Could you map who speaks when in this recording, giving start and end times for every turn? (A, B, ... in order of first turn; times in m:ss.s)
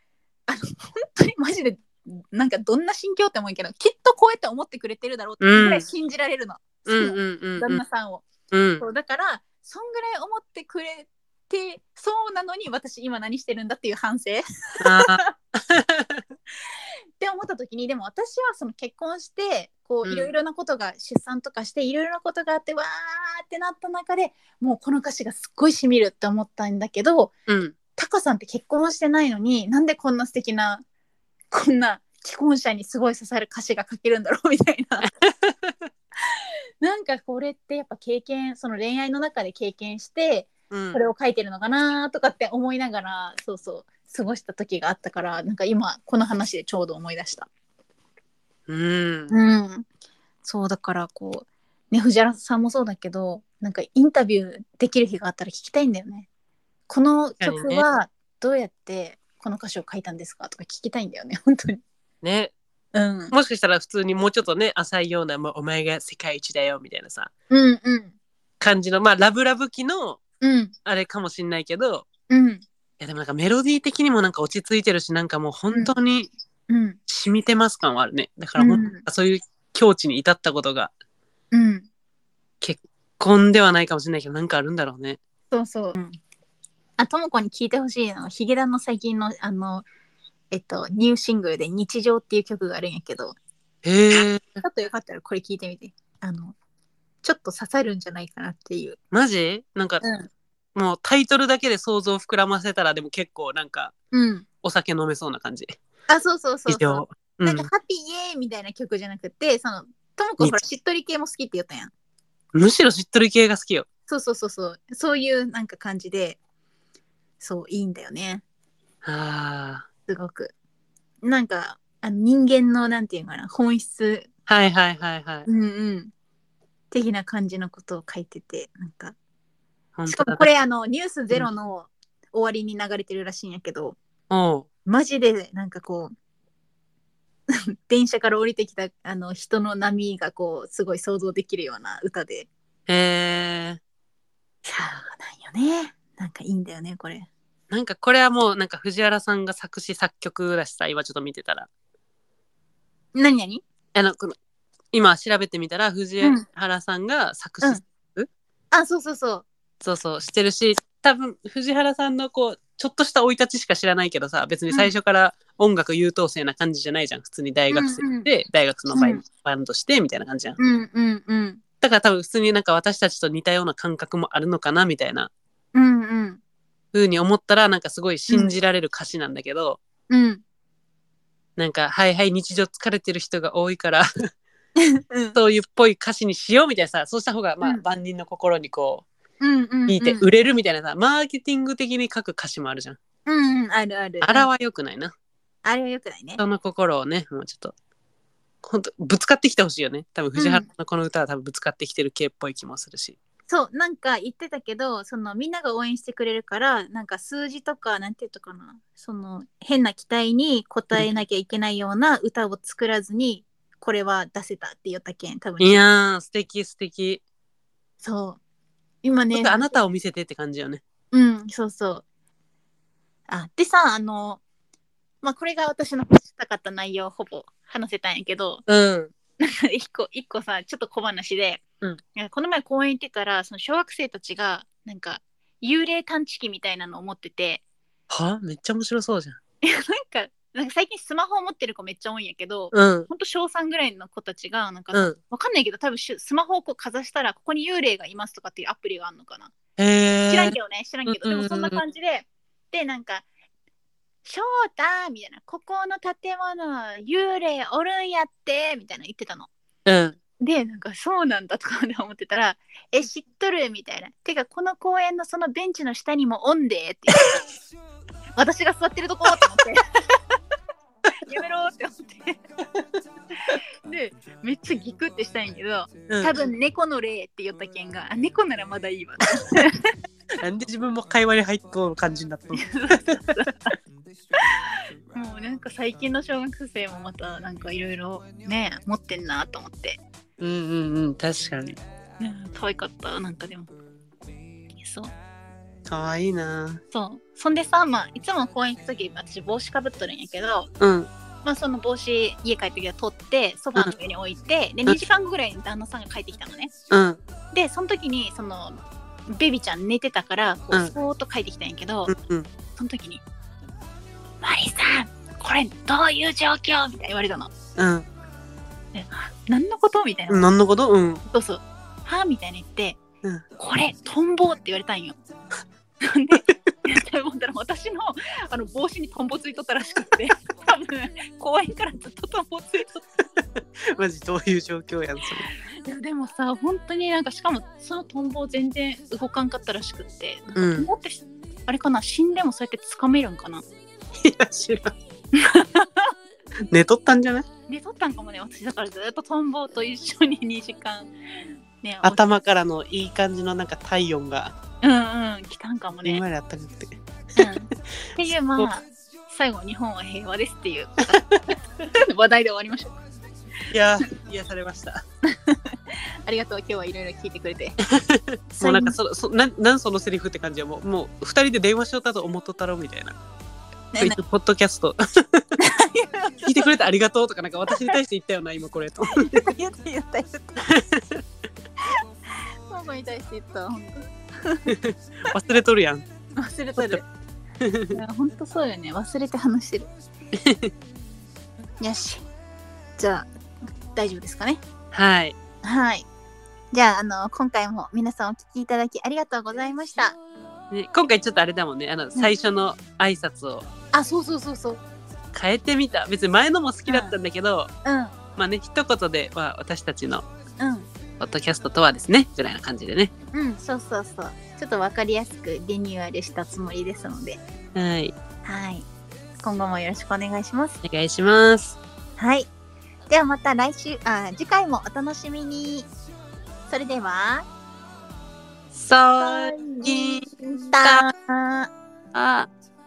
0:00.5-0:08.3 A
0:05.4-0:05.9 B
0:06.9-0:07.8 B
0:08.5-0:08.8 B
0:08.8-0:15.3 A
0:14.8-0:16.2 B
0:17.2-0:27.3 A
0:20.0-0:20.3 B
0:27.5-0:27.8 B
0:28.0-0:30.8 A
0:31.5-0:35.1 A
0:35.0-0:35.8 B
0:36.3-0:47.5 A
0:40.7-0:41.0 B
0:48.7-0:49.3 B
0:49.3-0:49.9 A
0:50.4-0:56.3 A
0:56.9-1:01.8 A
0:57.4-0:57.8 B
1:02.2-1:02.5 B
1:02.9-1:03.4 A
1:03.3-1:07.3 B
1:07.5-1:08.1 A
1:08.6-1:10.2 B
1:10.4-1:10.7 A
1:10.8-1:12.1 B
1:12.3-1:12.6 A
1:13.0-1:16.3 B
1:16.7-1:17.0 A
1:17.1-1:20.9 B
1:18.6-1:19.0 A
1:21.5-1:21.9 A
1:22.6-1:25.2 B
1:25.5-1:26.2 A
1:27.0-1:29.9 A
1:30.5-1:33.4 A
1:33.8-1:34.6 B
1:34.6-1:36.6 A
1:37.2-1:39.0 A
1:39.1-1:40.0 B
1:40.0-1:40.3 A
1:40.8-1:43.9 B
1:44.1-1:44.4 A
1:44.6-1:45.8 B
1:46.1-1:51.9 A
1:46.7-1:47.7 B
1:52.5-1:53.9 B
1:54.1-1:56.4 A
1:57.4-1:58.4 A
1:59.0-1:59.9 B
2:00.1-2:00.5 A
2:01.2-2:04.3 A
2:04.5-2:05.5 B
2:05.5-2:06.1 A
2:06.9-2:09.2 A
2:10.0-2:10.5 B
2:10.1-2:14.0 A
2:14.3-2:14.7 B
2:14.8-2:16.1 A
2:17.9-2:22.5 A
2:22.9-2:23.8 B
2:24.6-2:27.3 A
2:27.7-2:31.7 B
2:33.2-2:33.6 A
2:34.0-2:34.4 B
2:34.9-2:38.3 B
2:38.7-2:39.4 A
2:39.8-2:50.6 B
2:47.7-2:48.3 A
2:48.9-2:49.2 A
2:50.6-2:51.6 A
2:51.8-2:55.3 B
2:55.7-2:56.4 A
2:56.9-2:59.8 B
3:00.1-3:00.4 A
3:01.6-3:04.1 B
3:04.8-3:05.4 A
3:05.4-3:09.1 B
3:09.4-3:10.2 A
3:09.9-3:13.0 B
3:13.3-3:14.5 A
3:14.2-3:15.1 B
3:15.6-3:16.4 A
3:16.4-3:17.7 B
3:18.6-3:23.2 B
3:20.4-3:20.7 A
3:23.5-3:35.8 A
3:35.6-3:37.2 B
3:38.0-3:38.4 A
3:39.0-3:39.8 A
3:39.3-3:40.8 B
3:41.1-3:42.0 A
3:43.3-3:44.4 A
3:45.2-3:48.6 A
3:48.7-3:49.1 B
3:49.4-3:51.6 A
3:52.2-3:57.6 A
3:58.1-3:59.4 B
3:59.6-4:09.5 A
4:02.7-4:03.1 B
4:09.8-4:11.8 B
4:10.3-4:13.2 A
4:14.2-4:19.5 A
4:19.9-4:20.2 B
4:20.4-4:27.4 A
4:28.4-4:29.8 A
4:31.2-4:32.4 A
4:33.4-4:39.9 A
4:40.4-4:43.2 B
4:42.5-4:43.7 A
4:45.1-4:50.0 A
4:50.4-4:51.8 B
4:52.2-4:53.7 A
4:54.8-4:55.1 A
4:55.9-4:56.8 B
4:56.9-5:00.7 A
5:00.8-5:01.1 B
5:01.4-5:06.7 A
5:06.9-5:07.2 B
5:07.5-5:12.1 A
5:12.1-5:12.5 B
5:12.8-5:13.2 A
5:14.4-5:17.5 A
5:17.8-5:18.1 B
5:18.9-5:20.5 A
5:20.3-5:21.2 B
5:21.3-5:23.0 A
5:23.6-5:25.2 A
5:26.0-5:33.1 A
5:33.9-5:35.5 B
5:35.8-5:43.7 A
5:40.6-5:40.9 B
5:44.2-5:44.9 B
5:45.4-5:46.1 A
5:46.7-5:47.5 B
5:47.7-5:51.1 A
5:51.8-5:52.2 A
5:52.0-5:54.6 B
5:54.8-5:56.2 A
5:56.0-5:57.4 B
5:57.4-6:03.0 A
6:03.7-6:05.0 B
6:05.3-6:07.8 A
6:07.8-6:13.2 B
6:08.6-6:09.0 A
6:13.9-6:14.2 A
6:14.0-6:15.4 B
6:15.6-6:16.8 A
6:16.4-6:19.5 B
6:17.7-6:18.0 A
6:19.1-6:20.8 A
6:20.6-6:21.2 B
6:22.7-6:24.8 A
6:24.7-6:26.0 B
6:26.4-6:27.1 A
6:27.6-6:27.9 B
6:27.9-6:29.9 A
6:30.3-6:30.7 B
6:31.8-6:32.2 A
6:33.0-6:33.3 A
6:33.8-6:34.6 A
6:34.9-6:35.4 B
6:35.6-6:36.1 A
6:36.7-6:40.2 A
6:40.7-6:43.7 B
6:43.9-6:44.8 A
6:45.3-6:47.7 B
6:46.9-6:47.1 A
6:47.8-6:48.1 A
6:48.4-6:50.2 B
6:50.6-6:50.9 A
6:51.2-6:53.1 B
6:53.3-6:57.4 A
6:57.8-6:58.1 B
6:58.4-6:58.9 A
6:59.4-7:00.8 A
7:00.8-7:01.8 B
7:02.2-7:02.5 A
7:03.1-7:05.9 A
7:06.7-7:07.5 A
7:08.7-7:11.1 B
7:09.2-7:11.7 A
7:12.1-7:12.5 B